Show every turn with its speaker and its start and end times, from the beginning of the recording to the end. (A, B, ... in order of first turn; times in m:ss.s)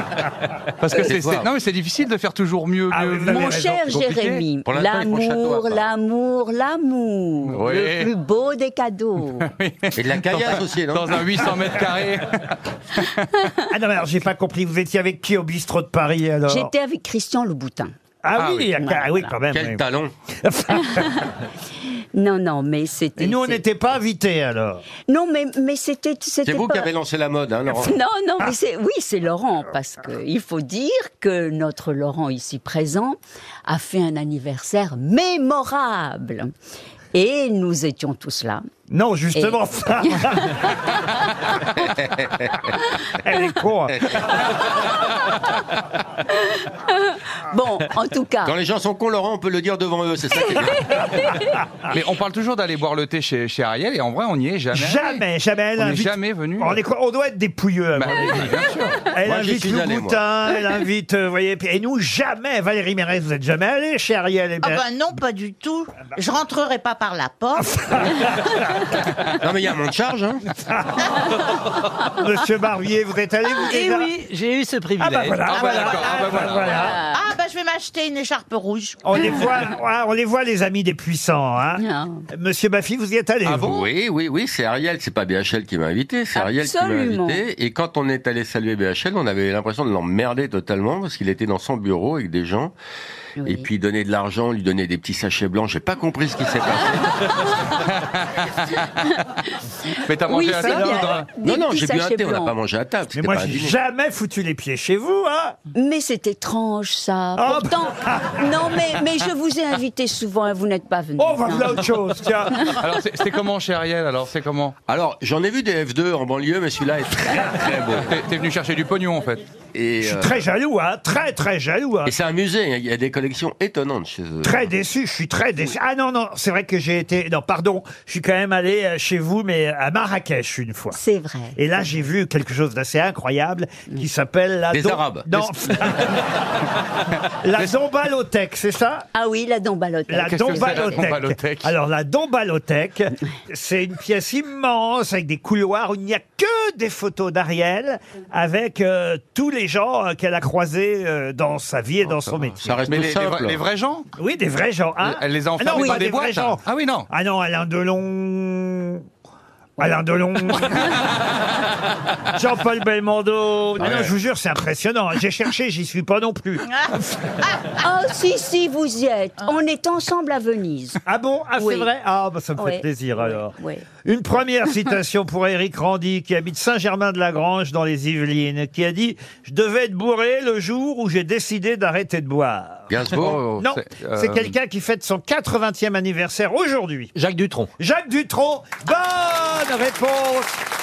0:00.8-0:04.4 A
0:00.9-0:01.5 B
0:02.9-0:03.8 C
0:03.2-0:09.5 D
0:04.6-0:05.9 B
0:07.5-0:08.1 A
0:09.4-0:13.3 A
0:10.0-0:11.1 B
0:13.7-0:16.7 C
0:16.5-0:17.9 D
0:18.2-0:19.8 C
0:18.4-0:18.7 A
0:18.8-0:19.3 D
0:19.5-0:20.1 B
0:20.4-0:21.1 C
0:20.7-0:21.4 D
0:22.1-0:23.6 D
0:23.2-0:24.8 C
0:25.1-0:26.9 D
0:26.4-0:28.0 B
0:27.7-0:36.5 D
0:37.1-0:38.6 D
0:38.9-0:40.9 C
0:39.3-0:41.4 D
0:41.8-0:42.7 B
0:43.2-0:44.0 C
0:44.0-0:44.2 B
0:44.7-0:45.5 D
0:46.3-0:48.5 D
0:48.4-0:51.3 B
0:50.9-0:51.5 D
0:51.9-0:55.2 A
0:54.7-1:04.8 C
0:55.8-0:56.8 A
0:57.9-0:59.1 A
0:59.2-1:00.2 B
1:04.6-1:08.3 E
1:07.8-1:08.6 C
1:09.3-1:10.4 B
1:10.6-1:11.0 C
1:12.0-1:14.1 C
1:13.7-1:15.1 F
1:15.0-1:17.0 C
1:15.1-1:16.8 A
1:15.5-1:19.0 E
1:16.7-1:17.2 D
1:19.0-1:23.8 C
1:21.8-1:22.2 D
1:23.4-1:32.7 B
1:26.3-1:27.4 D
1:33.4-1:33.7 D
1:33.4-1:37.6 B
1:38.9-1:39.3 D
1:40.0-1:41.3 A
1:40.3-1:42.5 D
1:40.6-1:40.9 C
1:41.4-1:43.7 B
1:43.1-1:45.6 C
1:45.7-1:51.8 D
1:47.4-1:48.8 C
1:51.2-1:52.8 C
1:52.8-1:54.7 A
1:54.9-1:58.1 B
1:58.0-1:59.4 A
1:59.7-2:00.4 B
2:00.0-2:02.1 C
2:02.0-2:04.7 B
2:04.4-2:11.0 C
2:10.9-2:11.6 D
2:11.6-2:16.4 C
2:14.7-2:15.5 B
2:17.4-2:19.1 C
2:19.1-2:21.1 D
2:20.1-2:32.8 C
2:20.3-2:21.7 A
2:32.6-2:33.6 B
2:32.9-2:34.0 A
2:34.2-2:39.0 C
2:35.0-2:37.0 A
2:35.8-2:36.0 D
2:39.8-2:41.0 C
2:42.3-2:46.8 C
2:43.8-2:44.1 A
2:47.7-2:51.0 D
2:51.0-2:53.5 C
2:51.6-2:51.9 D
2:52.6-2:53.8 D
2:54.0-3:07.1 C
3:02.9-3:03.6 B
3:03.1-3:04.5 A
3:07.2-3:07.6 F
3:07.8-3:10.6 C